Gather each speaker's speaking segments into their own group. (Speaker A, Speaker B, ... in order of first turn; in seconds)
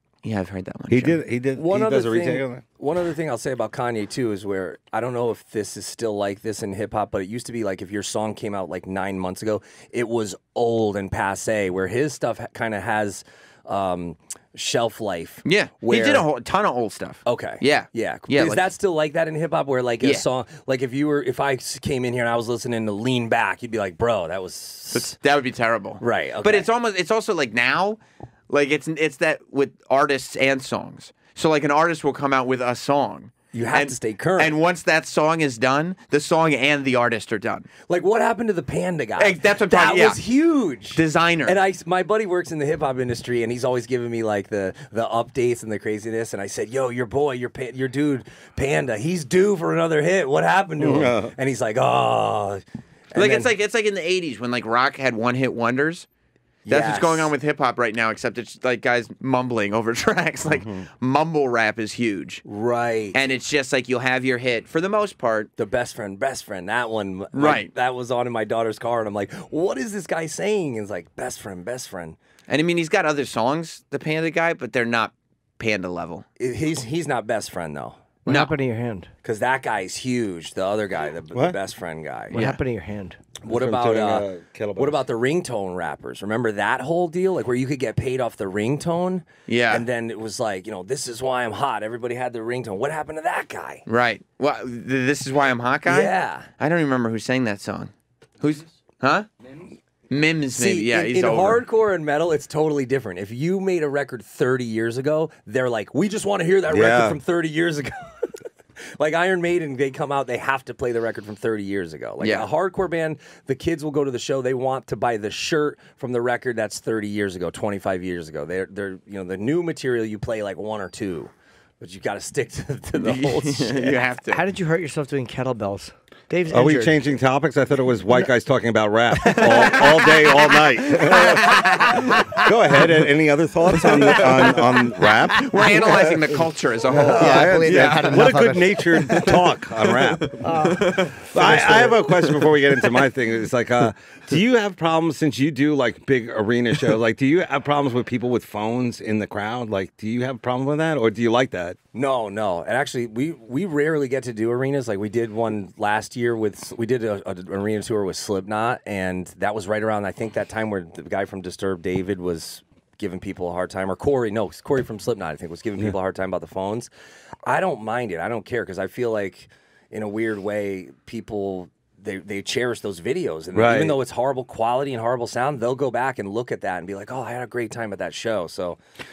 Speaker A: 0.2-1.2, 15.4-18.6, 24.9-28.0, 28.5-37.7, 39.2-40.2, 40.9-41.6, 53.1-56.1, 56.7-62.4, 63.1-65.5, 67.3-67.7, 72.5-76.2, 78.3-78.5, 82.3-82.6, 89.5-89.9, 93.9-99.3, 100.1-101.6, 112.2-112.5, 123.0-124.4, 129.3-129.8, 130.8-132.2, 133.8-138.3, 140.2-141.3
Speaker B: 0.9-2.6, 50.8-51.3, 60.5-60.9, 83.5-85.0, 106.7-107.2, 126.5-136.1, 136.9-140.5, 141.3-151.8, 173.6-174.0
Speaker C: 1.6-16.3, 17.2-25.2, 26.0-26.7, 33.5-34.5, 37.9-53.5, 56.6-57.3, 62.5-63.2, 65.6-72.2, 76.4-78.0, 79.2-82.4, 83.4-93.8, 95.9-96.5, 100.5-124.0, 151.9-166.9, 167.4-178.8
Speaker D: 78.2-79.1, 82.3-83.2, 124.3-127.0, 129.2-132.9, 133.8-136.1, 136.9-139.6, 140.4-142.4